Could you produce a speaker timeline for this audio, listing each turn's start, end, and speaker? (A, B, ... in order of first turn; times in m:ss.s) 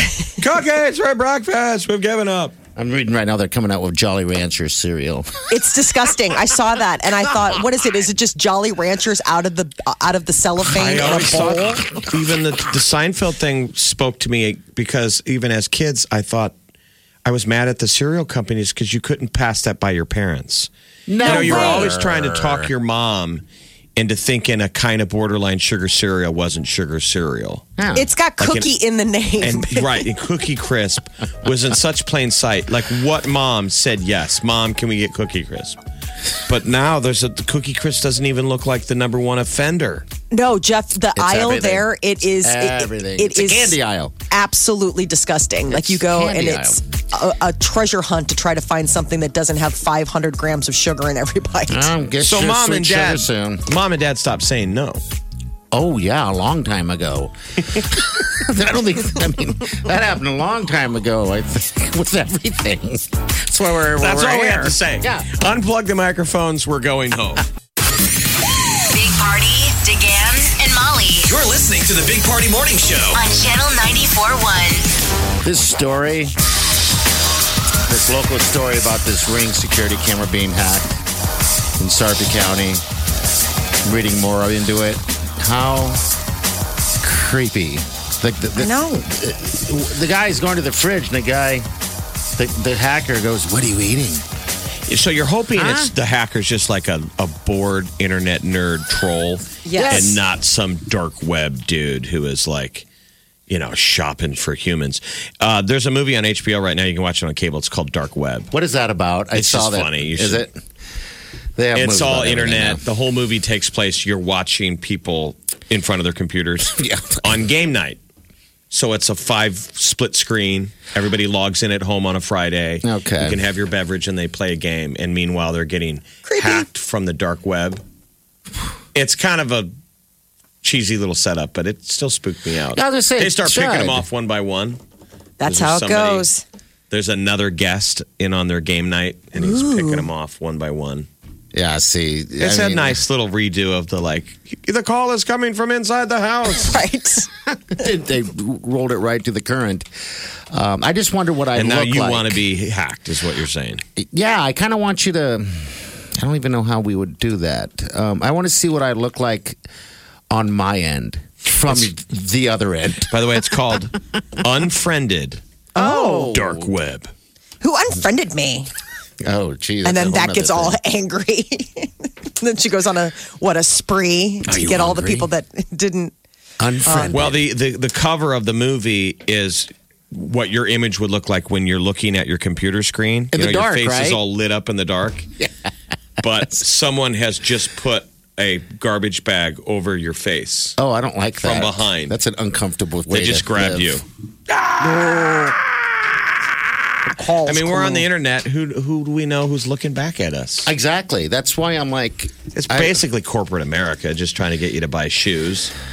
0:00.3-0:02.5 A
0:02.8-0:05.5 B
0:05.5-0:11.8 C
0:10.7-0:16.5 A
0:10.8-0:11.8 B
0:17.2-0:20.7 A
0:21.1-0:22.7 B
0:21.2-0:21.9 C
0:21.2-0:23.4 A
0:24.0-0:27.7 A
0:27.8-0:28.1 B
0:28.0-0:30.1 C
0:28.4-0:28.7 A
0:29.4-0:35.8 A
0:36.5-0:40.1 A
0:40.3-0:43.8 C
0:41.2-0:41.9 B
0:42.4-0:44.1 B
0:44.3-0:51.9 C
0:45.7-0:46.8 B
0:51.7-0:53.6 B
0:52.2-0:55.0 A
0:55.7-1:05.3 B
1:04.0-1:07.5 A
1:08.9-1:11.2 D
1:11.2-1:13.2 E
1:13.1-1:14.8 D
1:15.4-1:16.3 B
1:17.9-1:21.0 B
1:21.8-1:22.8 B
1:23.8-1:26.0 B
1:27.0-1:31.7 B
1:28.6-1:29.0 C
1:32.4-1:34.2 B
1:34.9-1:42.9 A
1:35.5-1:35.9 B
1:39.6-1:40.1 C
1:39.7-1:40.2 B
1:43.5-1:48.5 A
1:48.5-1:50.6 B
1:49.3-1:50.5 A
1:51.6-1:52.8 B
1:51.7-1:58.0 A
1:56.7-1:57.3 B
1:58.7-2:07.8 A
2:02.8-2:03.4 B
2:06.3-2:06.7 C
2:09.0-2:09.7 A
2:10.6-2:14.8 A
2:12.7-2:14.1 B
2:15.4-2:16.4 C
2:15.4-2:16.3 A
2:16.9-2:21.1 A
2:19.4-2:20.1 C
2:21.5-2:23.0 B
2:22.4-2:26.8 A
2:26.5-2:27.3 C
2:27.5-2:29.9 B
2:30.5-2:32.4 B
2:31.6-2:33.8 A
2:34.0-2:39.6 B
2:40.3-2:43.1 B
2:43.1-2:45.4 A
2:45.8-2:46.3 C
2:45.8-2:46.7 B
2:46.3-2:47.1 A
2:47.6-2:48.7 C
2:49.2-2:50.8 B
2:49.8-2:56.1 C
2:54.5-2:55.3 B
2:56.6-2:57.4 B
2:56.8-2:57.2 C
2:57.1-3:05.3 A
3:03.3-3:04.2 B
3:06.2-3:10.8 A
3:10.8-3:14.0 B
3:11.4-3:12.2 A
3:13.1-3:14.0 A
3:14.8-3:15.6 C
3:17.0-3:18.1 C
3:17.4-3:20.7 A
3:20.6-3:23.0 B
3:22.5-3:25.7 A